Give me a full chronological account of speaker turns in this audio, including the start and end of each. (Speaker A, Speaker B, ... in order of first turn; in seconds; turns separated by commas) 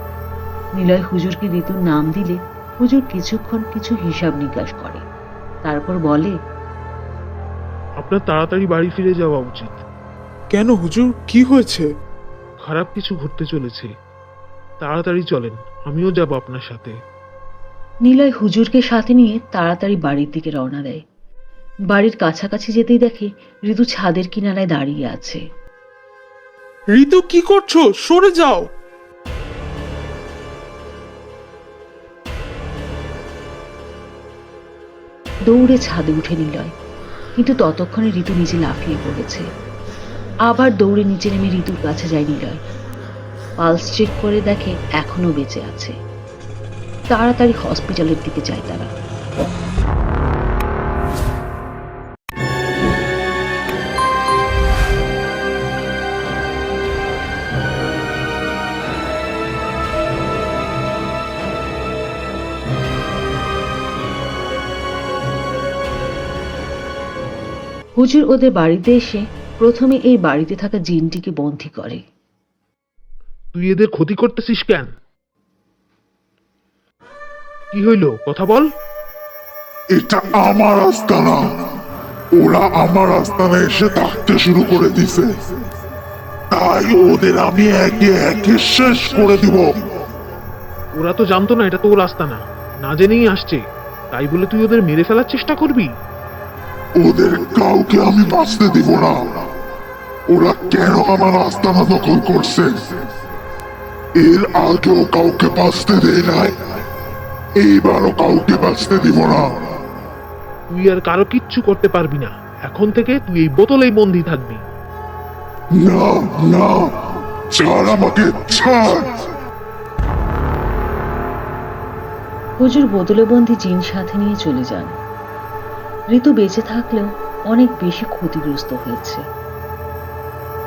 Speaker A: 0.8-5.0, Speaker A: 5.7-6.3, Speaker B: 8.0-9.8, Speaker C: 10.5-11.9, Speaker B: 12.6-13.9, Speaker B: 14.8-16.9, Speaker A: 18.1-21.0, Speaker A: 21.9-25.4, Speaker C: 27.0-28.7, Speaker A: 35.5-36.7, Speaker A: 37.4-39.5, Speaker A: 40.5-42.6, Speaker A: 43.6-46.0, Speaker A: 47.1-48.9, Speaker A: 68.0-72.0, Speaker B: 73.5-74.9, Speaker B: 77.7-78.7, Speaker D: 80.0-81.4, Speaker D: 82.3-85.4, Speaker D: 86.5-89.7, Speaker B: 91.0-95.9, Speaker D: 97.0-99.2, Speaker D: 100.3-102.8, Speaker D: 104.2-106.7, Speaker D: 107.6-109.6, Speaker B: 110.7-114.6, Speaker D: 115.7-116.9, Speaker D: 117.5-119.1, Speaker A: 122.6-125.0, Speaker A: 126.1-129.2